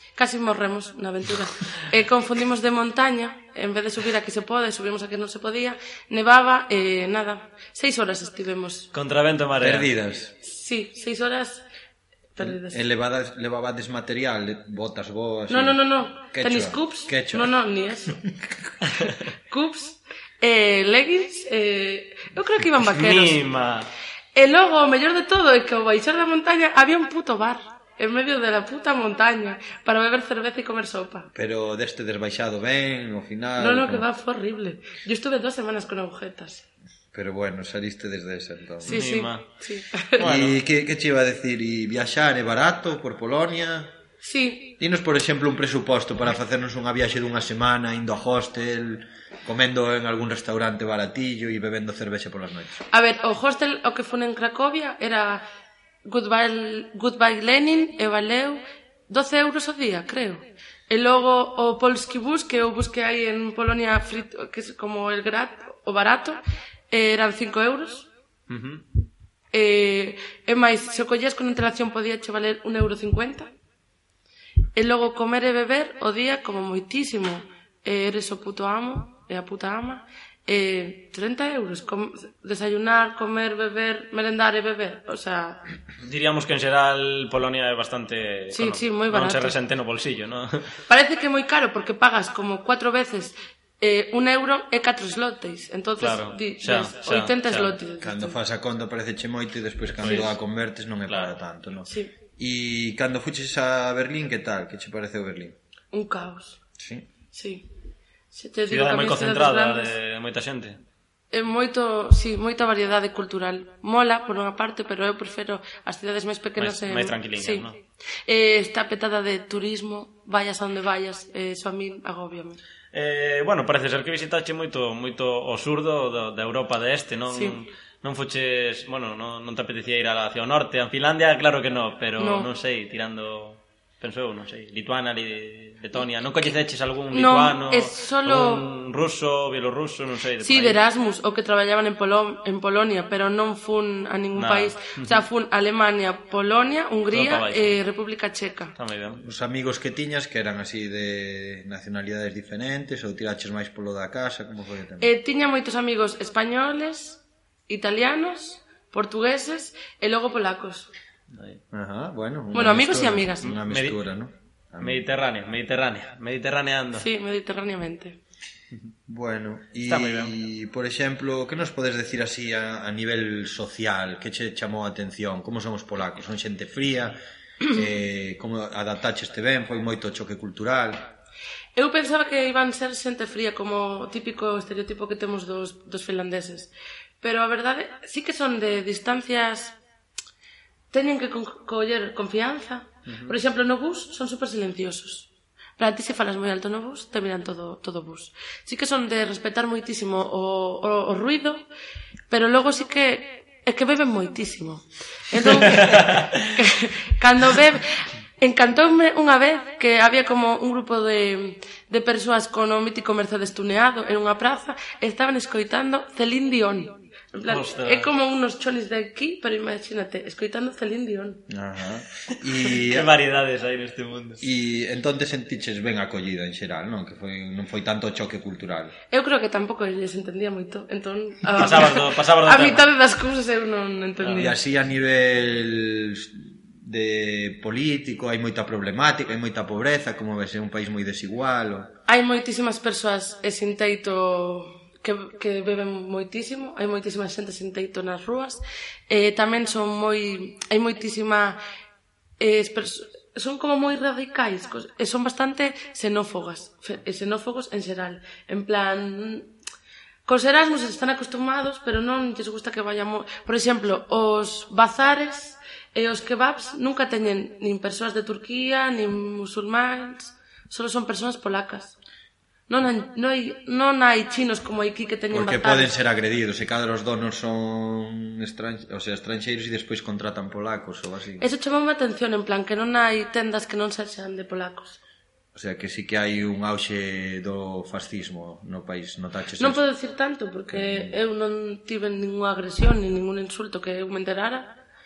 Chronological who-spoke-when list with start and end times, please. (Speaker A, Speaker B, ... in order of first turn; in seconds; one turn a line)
Speaker A: 0.1-8.9
Speaker B: 8.9-9.9
Speaker C: 9.6-10.3
Speaker A: 10.4-11.6
Speaker A: 12.3-12.8
Speaker C: 12.4-17.5
Speaker A: 15.5-18.2
Speaker A: 19.5-23.4
Speaker B: 22.8-23.9
Speaker A: 24.3-31.3
Speaker C: 31.3-34.0
Speaker A: 33.6-36.6
Speaker C: 37.1-39.0
Speaker B: 38.8-39.5
Speaker A: 38.9-40.2
Speaker B: 40.2-40.6
Speaker C: 40.2-43.9
Speaker A: 44.2-44.7
Speaker C: 44.8-52.8
Speaker A: 52.9-55.4
Speaker A: 56.0-68.1
Speaker B: 68.5-68.8
Speaker A: 69.5-73.5
Speaker A: 74.8-85.6
Speaker B: 86.0-90.7
Speaker A: 88.5-89.5
Speaker A: 90.9-98.4
Speaker B: 96.0-97.8
Speaker C: 98.0-105.5
Speaker B: 100.0-100.3
Speaker B: 101.1-101.3
Speaker A: 105.9-106.6
Speaker C: 106.8-107.1
Speaker A: 107.3-107.7
Speaker A: 108.3-109.9
Speaker B: 108.7-110.8
Speaker A: 111.3-117.7
Speaker B: 116.6-117.7
Speaker A: 118.3-122.6
Speaker B: 122.9-140.8
Speaker A: 127.3-127.6
Speaker A: 132.2-132.5
Speaker A: 137.1-138.6
Speaker A: 140.4-148.7
Speaker B: 144.3-145.2
Speaker B: 147.1-147.8
Speaker B: 148.8-149.2
Speaker C: 149.2-155.1
Speaker A: 155.0-160.9
Speaker B: 161.3-161.6
Speaker C: 161.7-165.1
Speaker A: 162.5-163.5
Speaker B: 163.4-164.0
Speaker B: 164.8-167.1
Speaker A: 166.9-168.2
Speaker C: 169.1-177.2
Speaker B: 169.8-170.3
Speaker C: 177.7-181.1
Speaker A: 181.8-189.8
Speaker A: 190.9-201.7
Speaker B: 193.1-193.3
Speaker A: 202.3-221.4
Speaker B: 205.4-206.4
Speaker B: 217.5-218.1
Speaker C: 221.5-223.1
Speaker B: 222.7-224.4
Speaker C: 224.4-228.9
Speaker A: 229.1-234.6
Speaker B: 231.6-232.8
Speaker B: 234.2-234.5
Speaker C: 234.3-241.9
Speaker A: 242.1-251.6
Speaker A: 252.4-259.5
Speaker A: 260.2-272.0
Speaker A: 272.7-276.0
Speaker C: 275.3-281.5
Speaker A: 281.4-285.0
Speaker C: 285.5-289.8
Speaker A: 289.6-294.8
Speaker C: 290.7-291.1